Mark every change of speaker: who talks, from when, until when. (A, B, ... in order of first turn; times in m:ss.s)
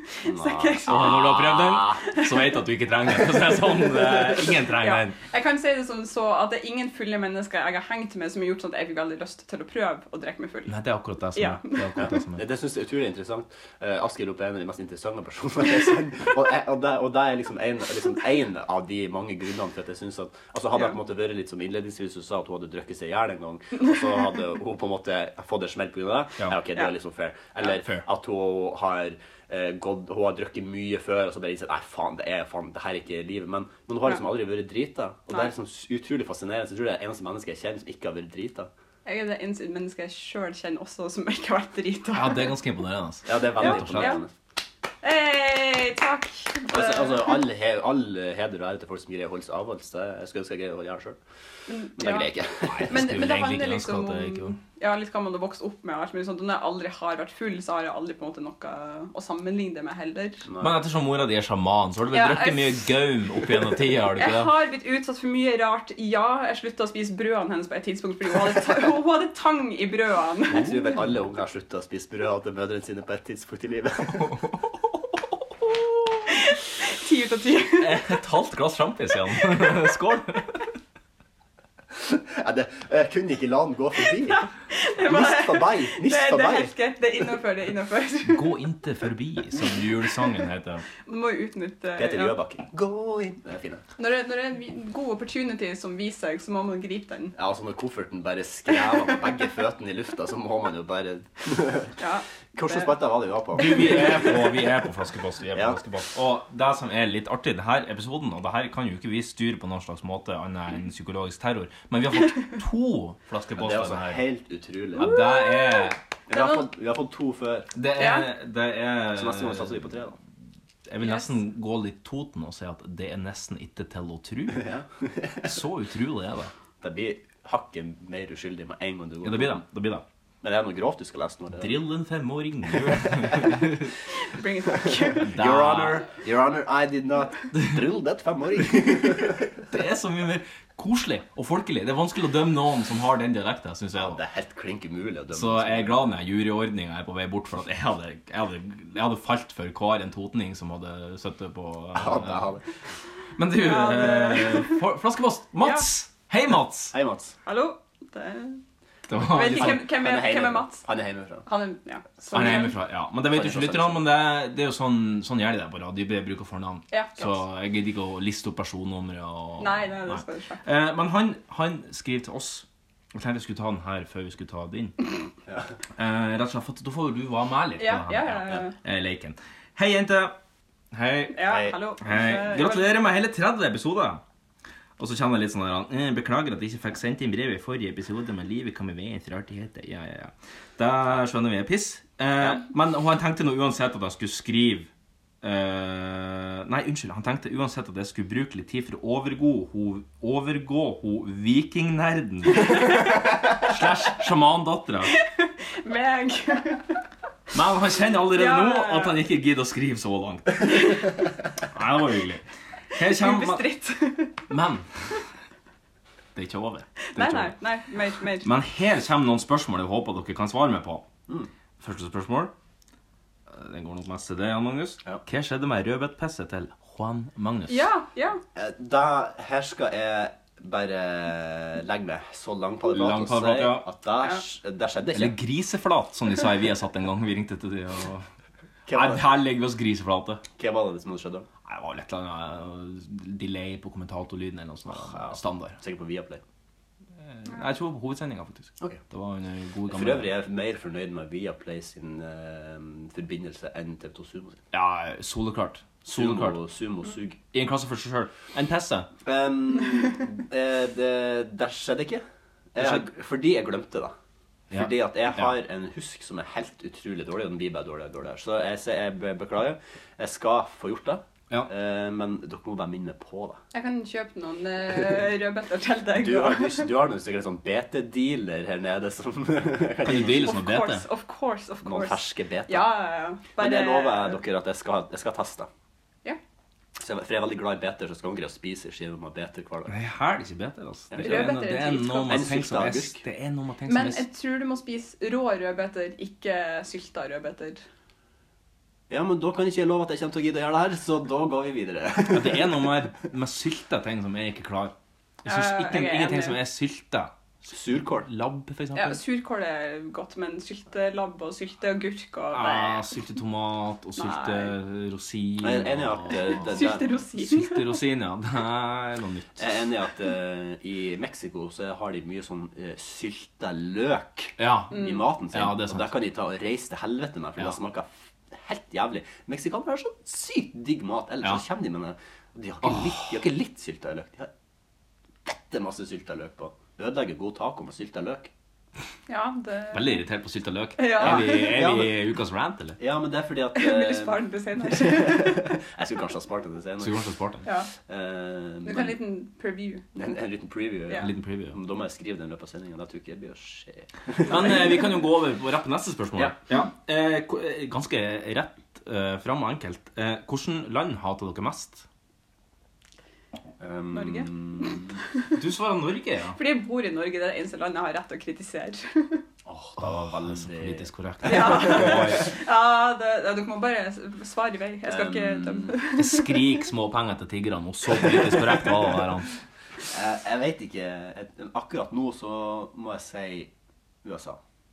0:00.1-0:01.2 A
0:00.2-0:02.0 B
0:00.9-0:05.2 C
0:04.8-0:10.8 A
0:10.7-0:12.4 C
0:11.4-0:11.8 A
0:12.0-0:38.7 B
0:27.7-0:28.0 C
0:39.0-0:42.5 A
0:42.1-0:44.2 C
0:43.3-0:44.3 B
0:43.6-0:44.2 A
0:45.0-0:47.4 A
0:46.7-0:51.2 B
0:51.7-0:52.3 A
0:52.0-0:53.1 B
0:52.7-0:54.6 C
0:52.9-1:00.5 A
1:00.5-1:00.8 B
1:00.6-1:04.6 C
1:02.1-1:02.8 A
1:04.2-1:10.8 A
1:10.5-1:14.4 B
1:16.3-1:18.0 A
1:17.8-1:20.7 C
1:22.0-1:26.7 B
1:24.7-1:28.6 A
1:28.2-1:30.8 C
1:31.1-1:32.4 A
1:32.0-1:33.8 B
1:34.0-1:37.4 A
1:37.4-1:42.0 B
1:42.0-1:42.9 A
1:42.5-1:44.2 B
1:43.6-1:54.2 C
1:53.6-1:55.1 B
1:55.0-1:56.0 C
1:55.0-1:56.6 A
1:56.3-1:57.7 B
1:57.8-1:59.8 C
1:58.0-1:58.3 A
1:59.1-2:00.2 B
2:00.9-2:04.7 C
2:01.0-2:01.3 A
2:04.6-2:05.5 B
2:05.4-2:06.5 C
2:06.8-2:09.6 B
2:09.2-2:10.0 C
2:10.4-2:11.8 B
2:11.6-2:13.9 C
2:13.2-2:13.5 B
2:14.1-2:15.3 A
2:15.2-2:16.0 C
2:15.2-2:19.6 B
2:19.7-2:24.2 C
2:24.0-2:26.0 B
2:25.3-2:32.6 C
2:32.0-2:32.6 B
2:33.4-2:36.9 C
2:33.6-2:34.8 A
2:35.6-2:35.9 A
2:36.9-2:37.4 B
2:37.5-2:38.6 A
2:39.1-2:39.9 C
2:39.1-2:40.8 A
2:39.6-2:41.5 B
2:41.5-2:42.8 A
2:42.3-2:55.0 C
2:43.2-2:44.0 B
2:46.9-2:47.2 A
2:49.6-2:50.7 A
2:56.0-3:00.4 C
2:57.8-2:58.8 A
3:00.9-3:04.2 C
3:01.3-3:02.9 A
3:01.5-3:01.7 B
3:05.0-3:14.9 C
3:15.4-3:25.1 C
3:25.1-3:27.0 A
3:27.5-3:31.0 C
3:28.3-3:29.2 A
3:30.7-3:31.0 A
3:31.7-3:33.6 C
3:32.9-3:34.4 A
3:34.5-3:34.9 C
3:36.4-3:37.6 C
3:37.1-3:38.5 A
3:38.4-3:41.1 C
3:41.8-3:42.5 C
3:43.5-3:47.8 C
3:47.7-3:48.4 A
3:48.6-3:55.4 B
3:52.9-3:53.9 C
3:55.1-3:58.3 C
3:58.9-3:59.2 B
3:58.9-4:00.4 C
4:00.6-4:01.5 B
4:01.6-4:05.8 C
4:04.9-4:06.4 B
4:07.2-4:10.3 C
4:09.9-4:14.6 B
4:14.7-4:16.6 C
4:16.1-4:17.4 B
4:17.5-4:19.1 C
4:19.2-4:24.1 B
4:22.8-4:23.1 C
4:24.7-4:25.6 C
4:24.7-4:33.6 B
4:33.7-4:36.9 A
4:36.1-4:40.5 B
4:40.0-4:41.0 C
4:40.1-4:44.4 A
4:41.8-4:43.0 B
4:43.6-4:45.7 B
4:47.0-4:49.9 B
4:49.9-4:54.3 C
4:51.1-4:51.5 B
4:51.2-4:52.4 A
4:52.2-4:53.2 B
4:53.9-4:57.8 A
4:59.1-5:02.9 B
5:02.3-5:07.3 C
5:05.5-5:06.6 A
5:07.7-5:08.3 B
5:08.2-5:09.2 C
5:09.0-5:13.0 A
5:12.5-5:16.8 C
5:14.2-5:14.7 A
5:15.6-5:17.1 B
5:16.4-5:17.8 A
5:17.4-5:19.6 C
5:19.6-5:34.5 B
5:24.6-5:26.1 C
5:24.9-5:25.2 A
5:32.8-5:33.4 C
5:35.4-5:38.5 B
5:39.3-5:40.2 A
5:39.9-5:43.0 C
5:41.0-5:41.8 A
5:41.2-5:42.2 B
5:43.0-5:47.2 B
5:43.8-5:45.8 A
5:47.0-5:47.6 C
5:47.6-5:47.9 A
5:48.0-5:49.2 B
5:48.8-5:50.2 A
5:50.2-5:54.9 B
5:51.2-5:51.8 C
5:54.4-6:02.0 C
6:03.8-6:05.2 B
6:04.1-6:05.0 A
6:05.5-6:06.6 C
6:06.6-6:09.4 A
6:09.6-6:11.9 B
6:10.0-6:12.5 C
6:11.4-6:16.6 A
6:15.1-6:16.0 B
6:16.1-6:19.5 C
6:20.1-6:23.7 B
6:24.2-6:24.6 B